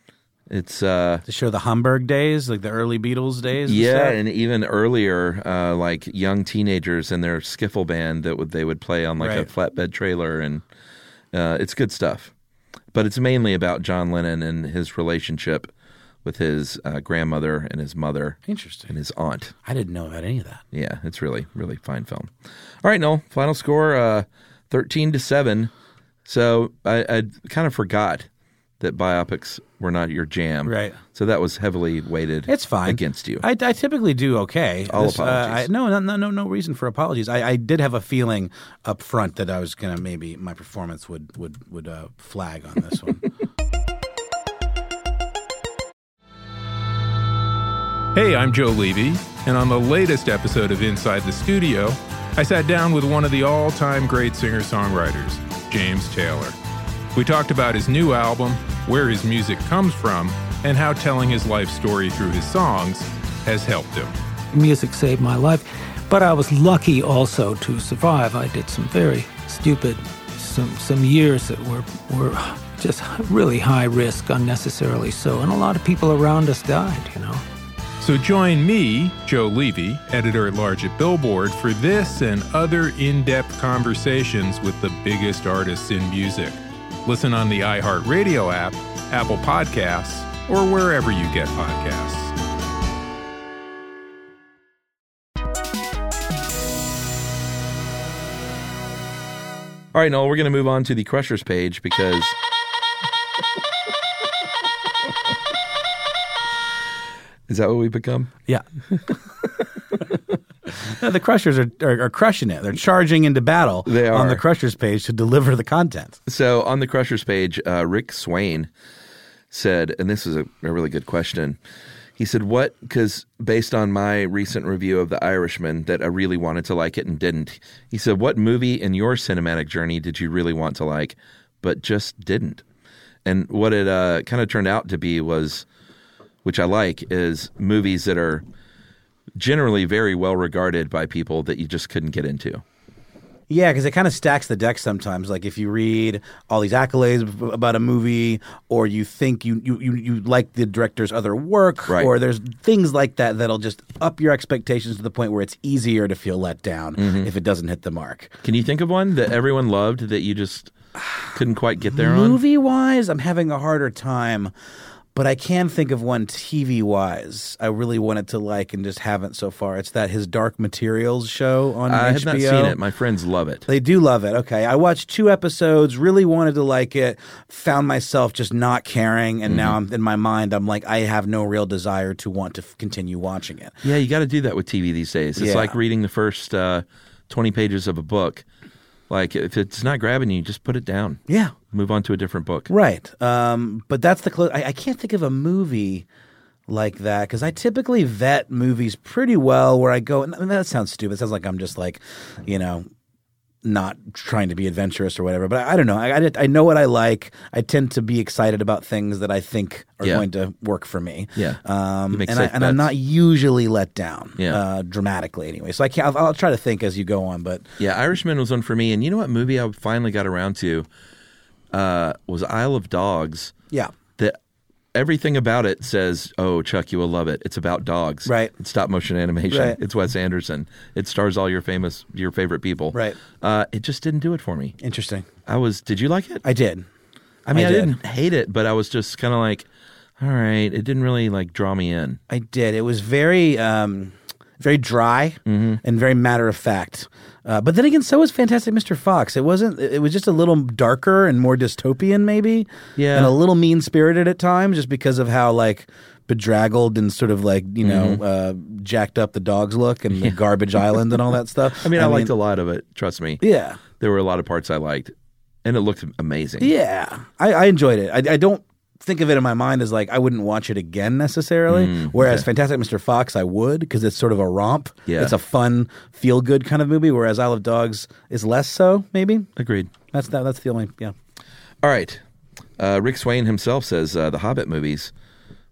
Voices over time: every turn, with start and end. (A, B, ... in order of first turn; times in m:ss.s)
0:00.5-0:01.2 A
0:01.2-0:04.2 B
0:03.6-0:10.6 A
0:09.2-0:09.5 B
0:11.3-0:12.3 A
0:12.9-0:15.7 A
0:16.2-0:19.5 A
0:18.4-0:18.9 B
0:19.6-0:20.6 B
0:20.7-0:25.7 A
0:26.2-0:28.3 A
0:28.8-0:33.4 A
0:30.6-0:31.0 B
0:32.5-0:43.3 B
0:34.9-0:35.7 A
0:48.1-0:56.6 C
0:57.1-1:04.1 C
1:04.5-1:17.4 D
1:18.0-1:32.3 C
1:39.9-1:42.4 A
1:47.5-1:48.3 A
1:50.8-1:56.2 B
1:53.8-1:54.4 A
1:56.3-1:58.7 A
1:59.5-2:01.6 A
2:02.2-2:12.6 A
2:13.2-2:15.6 A
2:16.4-2:18.4 A
2:19.4-2:22.6 A
2:23.5-2:38.4 B
2:37.0-2:37.3 A
2:38.4-2:40.7 A
2:41.3-2:42.4 A
2:41.8-2:44.5 B
2:45.1-2:52.8 B
2:51.9-2:53.7 A
2:53.7-3:03.8 B
2:59.5-2:59.8 A
3:03.8-3:08.4 A
3:05.4-3:05.8 B
3:09.1-3:12.7 A
3:11.3-3:11.5 B
3:12.7-3:16.0 B
3:16.7-3:22.9 B
3:23.6-3:37.6 B
3:31.4-3:32.9 A
3:37.8-3:40.9 A
3:41.7-3:43.5 A
3:44.9-3:54.8 A
3:48.2-3:48.5 B
3:49.5-3:49.8 B
3:52.9-3:53.2 B
3:54.8-3:55.2 B
3:55.4-3:56.4 A
3:56.4-3:56.9 B
3:57.5-3:59.7 A
3:57.5-3:57.9 B
4:00.2-4:02.2 A
4:02.3-4:22.3 B
4:05.4-4:05.8 A
4:13.0-4:13.3 A
4:17.8-4:18.2 A
4:21.8-4:23.4 A
4:23.4-4:23.8 B
4:24.0-4:25.1 A
4:25.6-4:26.7 A
4:26.6-4:39.5 B
4:31.7-4:32.5 A
4:35.1-4:35.3 A
4:39.6-4:39.9 A
4:40.1-4:41.1 B
4:41.8-4:42.2 A
4:42.8-4:45.1 A